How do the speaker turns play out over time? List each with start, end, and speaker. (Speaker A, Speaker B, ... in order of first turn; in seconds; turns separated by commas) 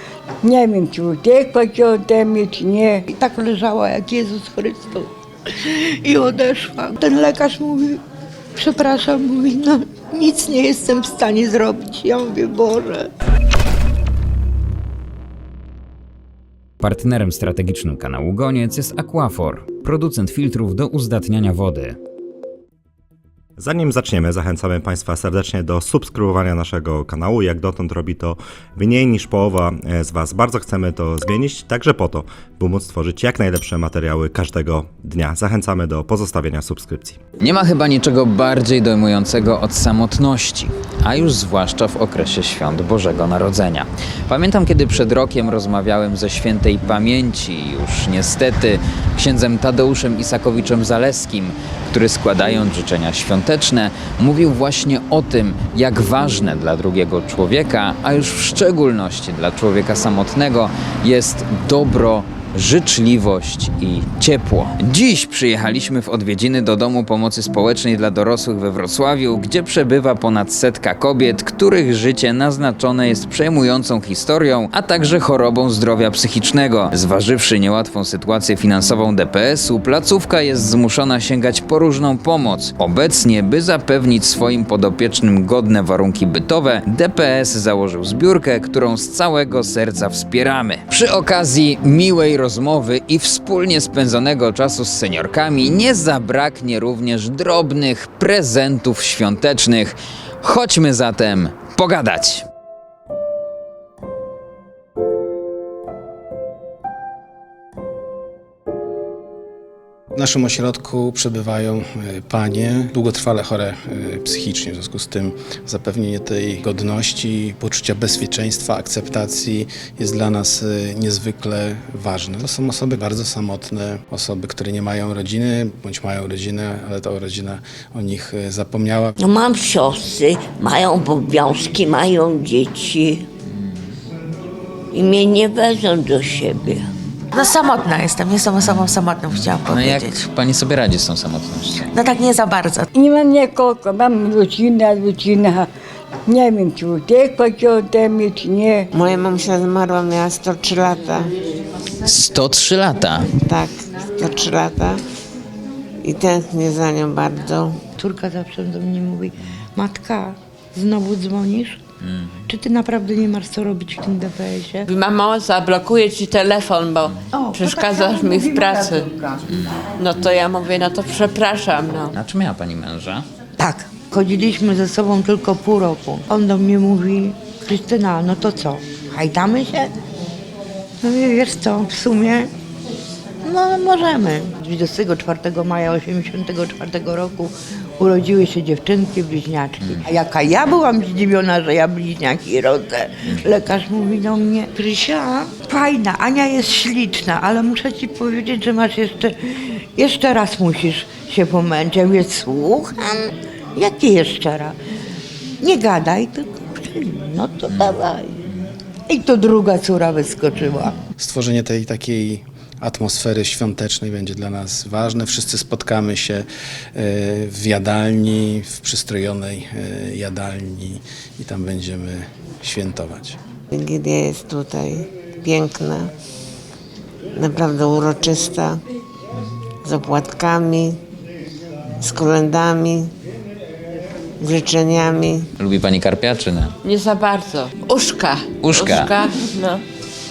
Speaker A: 0.4-3.0, Speaker B: 3.1-5.1, Speaker B: 5.6-8.0, Speaker B: 8.6-13.1, Speaker C: 16.8-22.0, Speaker D: 23.6-37.2, Speaker C: 37.4-102.4, Speaker E: 110.1-129.2, Speaker F: 129.2-133.3, Speaker F: 134.9-136.9, Speaker G: 137.3-140.1, Speaker C: 139.6-141.9, Speaker G: 142.0-142.9, Speaker A: 142.9-145.7, Speaker A: 146.3-148.9, Speaker H: 148.9-151.3, Speaker C: 152.0-153.3, Speaker H: 153.4-155.0, Speaker H: 156.0-157.8, Speaker B: 158.0-161.8, Speaker B: 162.5-164.9, Speaker I: 164.9-169.1, Speaker B: 167.3-169.4, Speaker I: 170.0-172.1, Speaker C: 172.1-173.2, Speaker B: 173.6-179.9, Speaker B: 181.0-182.5, Speaker B: 183.4-204.7, Speaker C: 189.8-190.1, Speaker B: 205.6-208.4, Speaker C: 207.7-208.6, Speaker B: 209.1-211.0, Speaker E: 211.2-223.4, Speaker H: 223.7-226.1, Speaker H: 227.3-228.8, Speaker H: 229.8-231.0, Speaker H: 232.0-233.1, Speaker H: 234.4-235.5, Speaker C: 235.6-236.7, Speaker I: 236.8-239.8, Speaker C: 238.6-239.1